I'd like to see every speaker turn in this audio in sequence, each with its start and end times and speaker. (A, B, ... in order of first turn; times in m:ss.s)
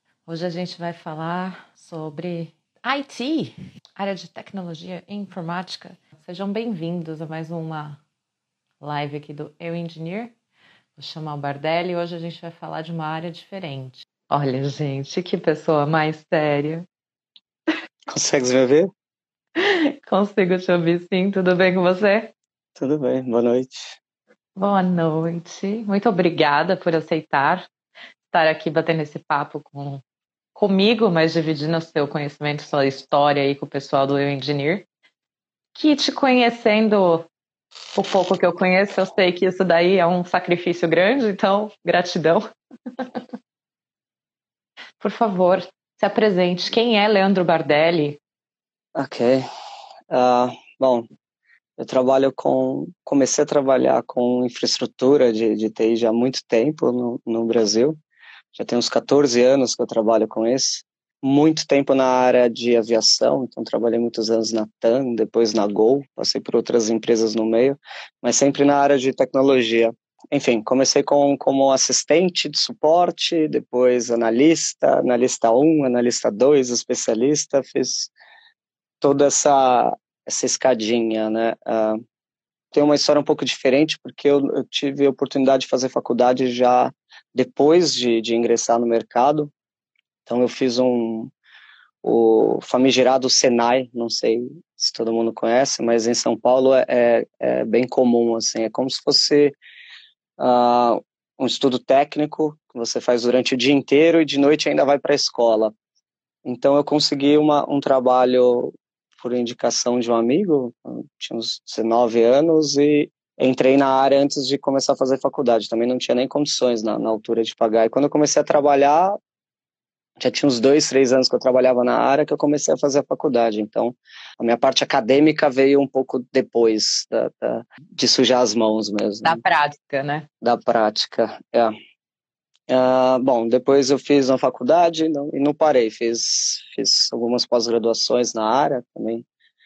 0:00.3-0:08.0 A
0:08.8-0:10.3 A
0:11.0-0:16.9 A
0:18.1-0:18.9 B
0:19.6-0:22.3 A
0:22.8-0:24.0 B
0:24.6-0:27.7 A
0:28.3-0:30.0 A
0:30.6-0:34.9 A
0:35.8-0:37.3 A
0:38.0-0:42.5 A
0:45.0-0:48.2 A
0:49.0-0:49.5 B
0:50.1-0:51.0 B
0:51.8-0:58.0 B
0:58.6-1:18.1 B
1:19.0-1:22.0 B
1:22.7-1:29.5 B
1:30.3-1:31.3 B
1:32.0-1:39.6 B
1:40.4-1:45.7 B
1:46.4-1:59.2 B
2:00.2-2:09.4 B
2:09.2-2:10.3 A
2:10.4-2:11.7 B
2:12.7-2:19.2 B